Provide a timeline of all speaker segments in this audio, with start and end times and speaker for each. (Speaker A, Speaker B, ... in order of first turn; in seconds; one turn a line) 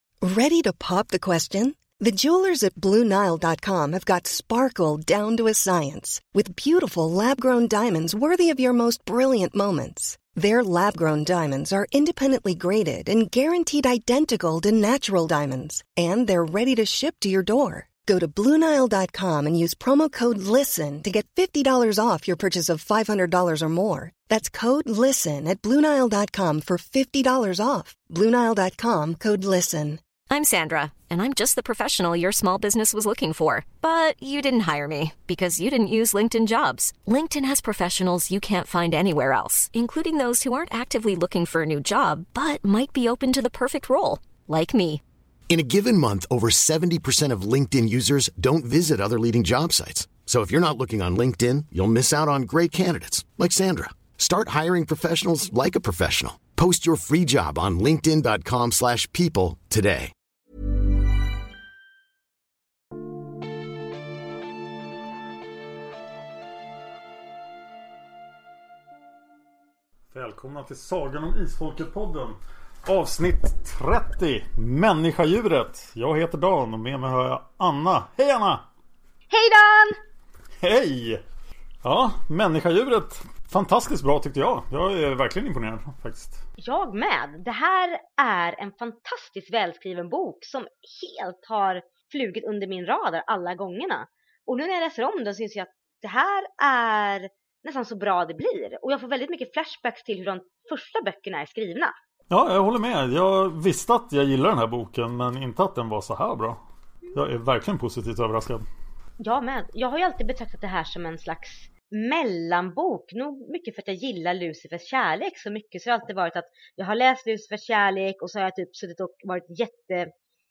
Speaker A: 0.2-30.0
Speaker B: 30.3-45.0
Speaker C: 45.5-60.1
Speaker D: 70.1-78.6
Speaker E: 79.3-80.0
Speaker D: 80.6-81.2
Speaker D: 81.8-86.4
Speaker E: 86.6-101.9
Speaker D: 102.3-106.6
Speaker D: 107.1-108.6
Speaker E: 109.2-120.1